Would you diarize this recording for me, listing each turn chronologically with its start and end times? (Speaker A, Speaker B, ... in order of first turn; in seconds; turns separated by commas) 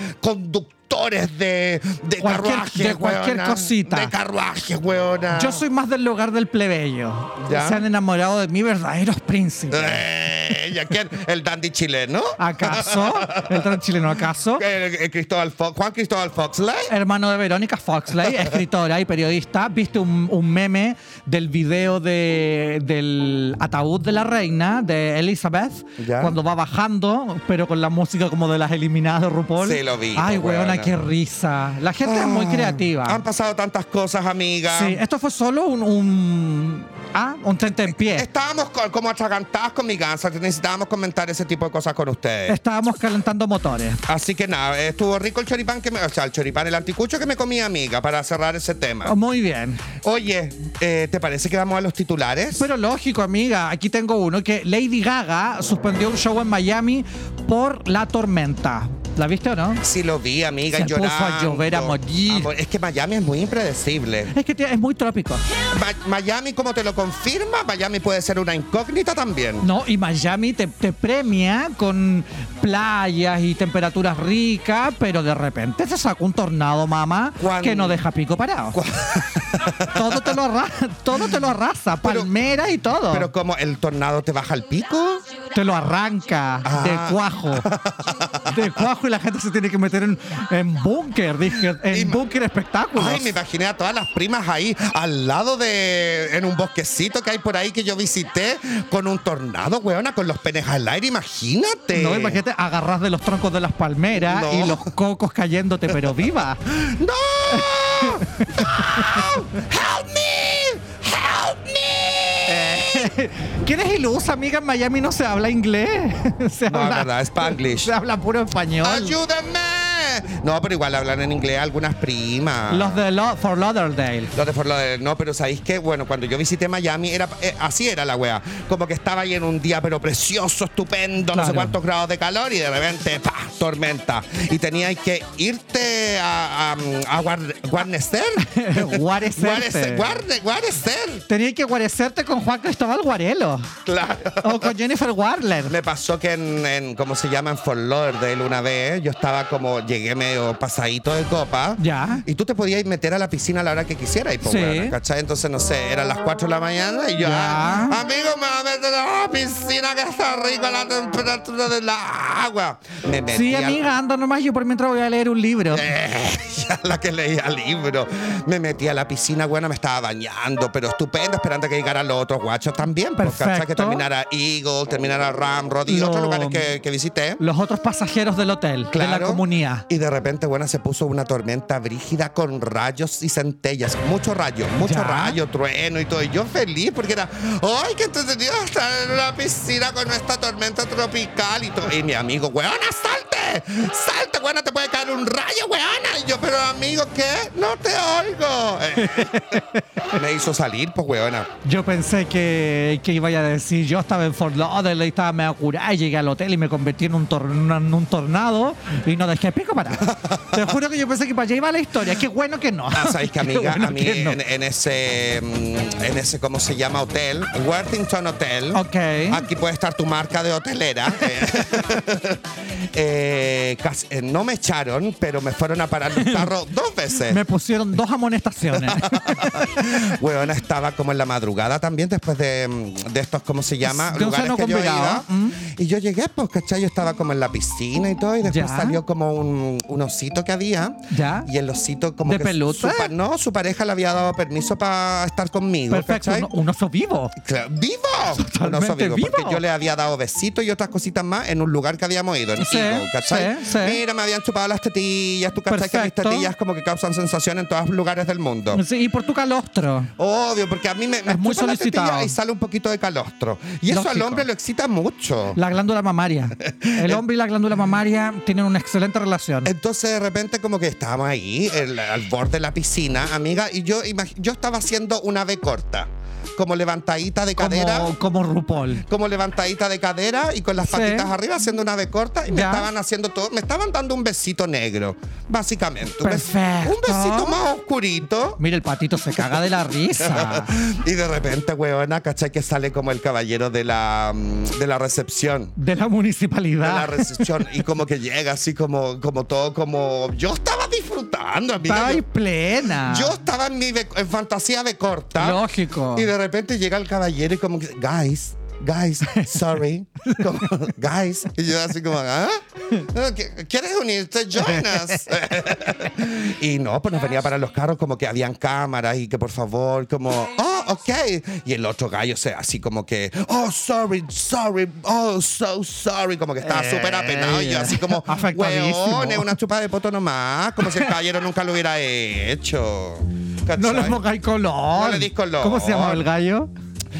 Speaker A: 0.2-5.6, Speaker B: 2.2-4.1, Speaker B: 5.3-10.1, Speaker A: 7.4-7.8, Speaker A: 9.7-13.8, Speaker B: 12.4-14.7, Speaker A: 14.6-16.9, Speaker B: 16.9-33.2, Speaker A: 18.2-18.6, Speaker A: 26.0-26.4, Speaker A: 29.6-30.9, Speaker A: 32.0-35.0, Speaker B: 34.7-38.3, Speaker A: 37.9-42.6, Speaker B: 42.5-44.0, Speaker A: 44.1-49.1, Speaker B: 49.0-49.8, Speaker A: 50.0-52.7, Speaker B: 52.6-59.8, Speaker A: 59.8-64.3, Speaker B: 60.8-62.5, Speaker B: 64.3-65.4, Speaker A: 65.7-69.7, Speaker B: 69.6-78.8, Speaker A: 77.4-78.0, Speaker A: 78.7-80.4, Speaker B: 79.9-83.3, Speaker A: 82.0-82.3, Speaker A: 83.1-85.2, Speaker B: 85.5-87.7, Speaker A: 86.6-88.8, Speaker B: 88.5-93.3, Speaker A: 91.9-92.2, Speaker A: 93.0-102.4, Speaker B: 101.9-106.6, Speaker A: 104.2-104.9, Speaker A: 106.7-113.1, Speaker B: 107.5-109.3, Speaker B: 112.5-119.2, Speaker A: 116.7-117.9, Speaker A: 118.8-123.0, Speaker B: 122.7-124.3, Speaker A: 124.3-141.2, Speaker B: 131.3-131.8, Speaker B: 138.4-140.2, Speaker B: 141.3-143.7, Speaker A: 143.8-144.7, Speaker B: 144.4-145.8, Speaker A: 145.7-163.8, Speaker B: 151.8-152.2, Speaker B: 154.4-154.9, Speaker B: 157.2-158.0, Speaker B: 163.3-165.9, Speaker A: 165.7-177.4, Speaker B: 173.2-174.1, Speaker B: 175.9-176.7, Speaker B: 177.4-179.9, Speaker A: 178.9-199.6, Speaker B: 184.8-185.4, Speaker B: 199.0-199.8, Speaker A: 200.1-201.5, Speaker B: 201.6-214.4, Speaker A: 210.0-210.7, Speaker A: 212.9-227.4, Speaker B: 218.7-219.5, Speaker B: 226.1-226.5, Speaker B: 227.2-229.9, Speaker A: 228.7-246.5, Speaker B: 233.8-235.6, Speaker B: 238.4-239.0, Speaker B: 241.1-241.5, Speaker B: 242.2-243.1, Speaker B: 245.9-247.3, Speaker A: 247.4-258.8, Speaker B: 248.3-249.6, Speaker B: 252.6-254.0, Speaker B: 255.7-256.5, Speaker B: 258.7-260.1, Speaker A: 260.2-265.6, Speaker B: 261.3-262.4, Speaker B: 263.9-264.5, Speaker B: 265.6-269.7, Speaker A: 266.6-267.2, Speaker A: 269.6-278.1, Speaker B: 277.6-279.0, Speaker A: 279.1-288.6, Speaker B: 280.9-281.3, Speaker B: 282.5-282.9, Speaker B: 286.2-287.6, Speaker B: 288.6-290.7, Speaker A: 289.4-295.8, Speaker B: 295.8-297.5, Speaker A: 296.8-302.2, Speaker B: 301.9-303.3, Speaker A: 303.0-334.2, Speaker B: 305.4-306.3, Speaker B: 309.3-309.5, Speaker B: 310.2-310.7, Speaker B: 314.6-315.3, Speaker B: 326.6-329.6, Speaker B: 330.8-331.1, Speaker B: 333.7-336.7, Speaker A: 334.9-336.2